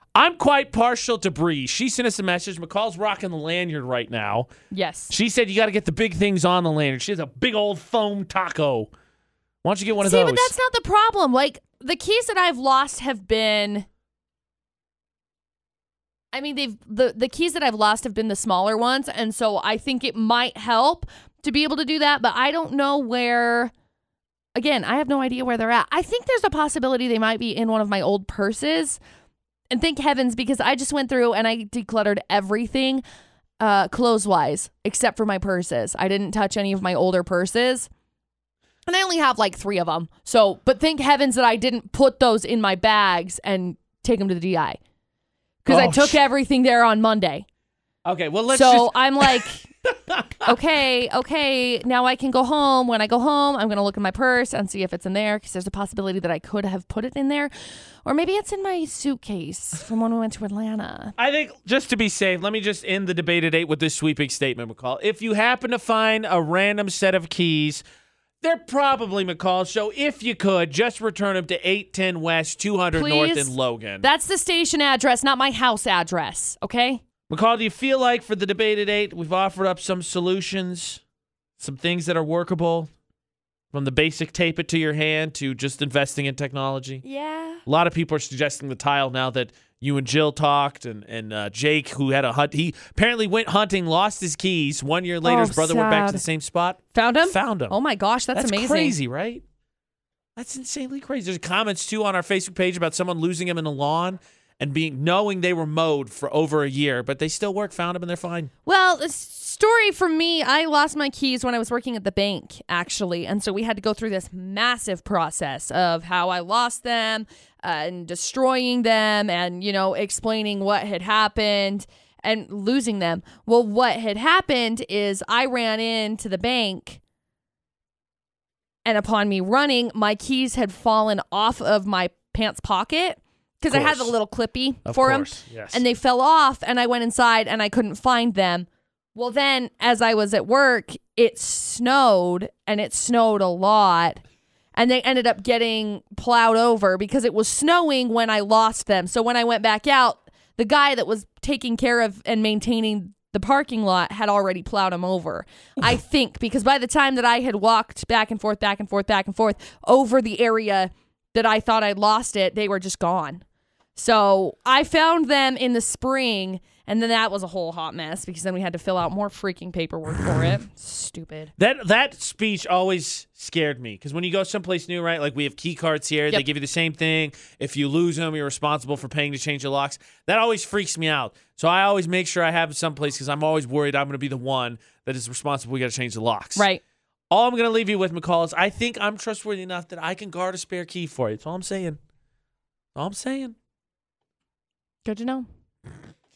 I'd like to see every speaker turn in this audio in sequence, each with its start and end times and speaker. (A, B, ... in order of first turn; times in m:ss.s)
0:00.2-0:04.5 A
0:04.7-0:05.1 B
0:05.1-0:08.9 A
0:09.6-0:10.5 A
0:10.0-0:13.9 B
0:16.3-0:23.7 B
0:24.6-0:29.0 B
0:29.7-0:33.0 B
0:33.6-0:37.9 B
0:38.9-0:44.8 B
0:45.6-0:47.4 B
0:45.7-0:46.2 A
0:48.0-0:50.5 A
0:48.5-0:49.7 B
0:50.5-0:57.5 B
0:58.0-1:01.1 B
1:01.2-1:07.8 A
1:08.4-1:14.1 A
1:13.0-1:17.0 B
1:17.3-1:21.0 A
1:21.6-1:22.9 A
1:23.7-1:27.0 A
1:27.0-1:27.6 B
1:27.7-1:37.8 A
1:35.2-1:36.2 B
1:36.9-1:39.0 B
1:38.3-1:39.4 A
1:40.4-1:48.5 A
1:48.7-2:07.0 B
2:08.9-2:24.2 B
2:13.7-2:14.2 A
2:14.8-2:15.8 A
2:24.8-2:43.4 B
2:44.0-2:51.5 B
2:51.6-3:06.7 A
3:06.6-3:06.8 B
3:07.3-3:12.0 A
3:13.0-3:13.6 A
3:15.0-3:15.5 B